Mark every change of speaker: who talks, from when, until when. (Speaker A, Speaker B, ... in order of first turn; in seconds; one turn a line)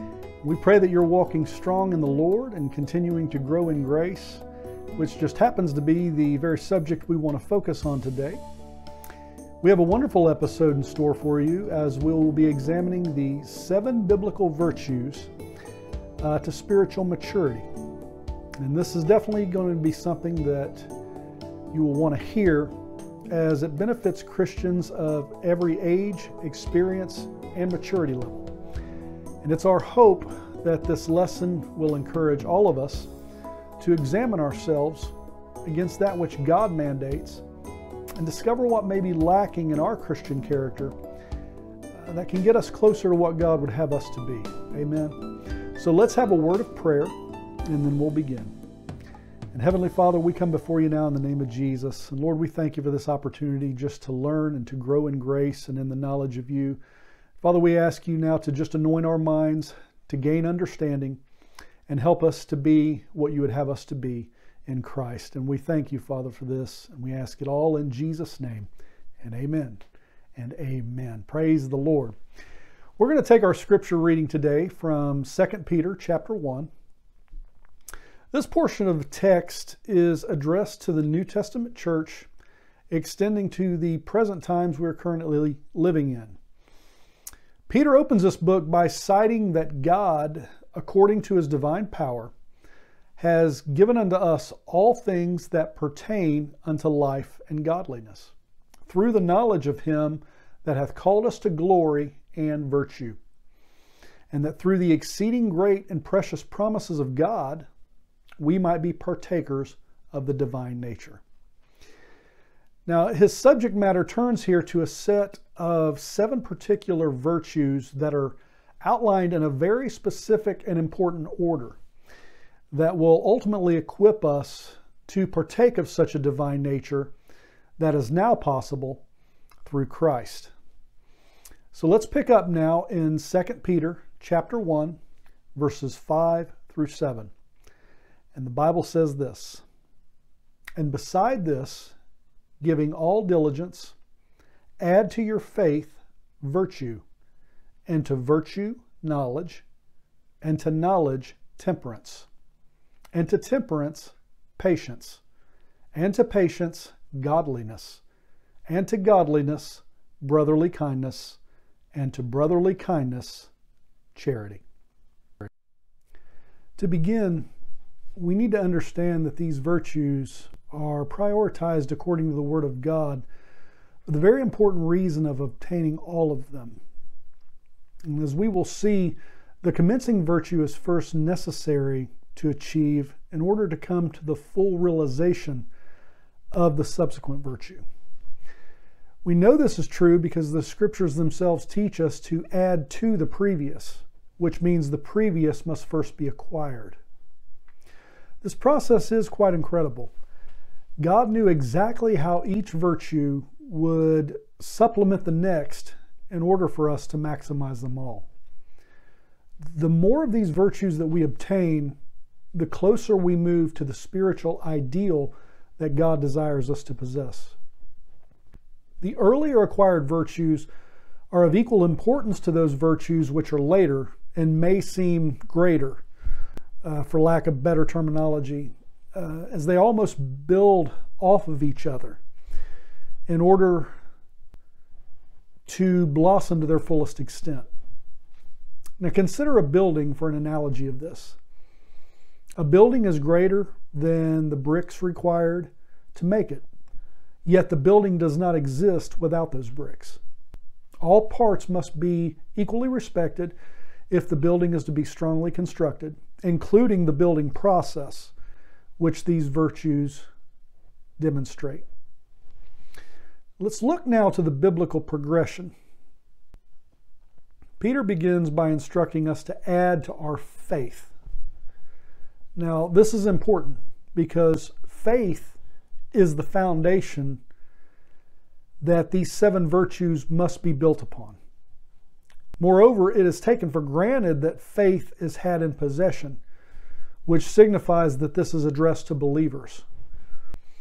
Speaker A: 0.4-4.4
Speaker A: 5.0-8.4
Speaker A: 9.6-15.3
Speaker A: 16.2-17.7
Speaker A: 18.6-20.9
Speaker A: 21.7-22.7
Speaker A: 23.3-28.5
Speaker A: 29.4-33.1
Speaker A: 33.8-35.1
Speaker A: 35.6-37.4
Speaker A: 38.2-41.0
Speaker A: 42.0-45.2
Speaker A: 45.8-47.1
Speaker A: 47.7-48.5
Speaker A: 49.5-56.8
Speaker A: 57.4-61.2
Speaker A: 61.9-68.7
Speaker A: 69.2-69.8
Speaker A: 70.3-72.2
Speaker A: 73.0-76.7
Speaker A: 78.3-82.3
Speaker A: 82.9-86.4
Speaker A: 87.7-92.3
Speaker A: 93.2-98.3
Speaker A: 98.9-103.2
Speaker A: 104.3-107.7
Speaker A: 108.4-111.2
Speaker A: 112.8-121.8
Speaker A: 122.7-127.1
Speaker A: 127.8-129.0
Speaker A: 129.6-130.5
Speaker A: 131.7-135.0
Speaker A: 135.6-137.3
Speaker A: 138.3-139.6
Speaker A: 140.8-141.9
Speaker A: 142.6-143.9
Speaker A: 144.8-147.0
Speaker A: 147.9-149.6
Speaker A: 150.4-152.3
Speaker A: 153.1-155.2
Speaker A: 155.9-158.0
Speaker A: 158.7-161.4
Speaker A: 161.9-163.5
Speaker A: 164.1-164.6
Speaker A: 166.8-167.5
Speaker A: 168.2-173.2
Speaker A: 174.1-176.8
Speaker A: 178.1-185.7
Speaker A: 186.5-187.8
Speaker A: 189.2-197.0
Speaker A: 198.4-200.1
Speaker A: 201.0-208.2
Speaker A: 209.7-211.9
Speaker A: 212.5-217.6
Speaker A: 219.0-220.7
Speaker A: 221.3-226.0
Speaker A: 226.8-232.2
Speaker A: 233.3-233.9
Speaker A: 235.7-237.7
Speaker A: 239.0-241.4
Speaker A: 242.6-246.7
Speaker A: 247.4-250.2
Speaker A: 251.0-253.6
Speaker A: 254.1-258.3
Speaker A: 259.0-260.3
Speaker A: 261.2-261.8
Speaker A: 263.6-265.8
Speaker A: 267.8-271.1
Speaker A: 272.6-275.6
Speaker A: 276.1-277.4
Speaker A: 278.8-281.4
Speaker A: 282.6-286.4
Speaker A: 287.2-289.8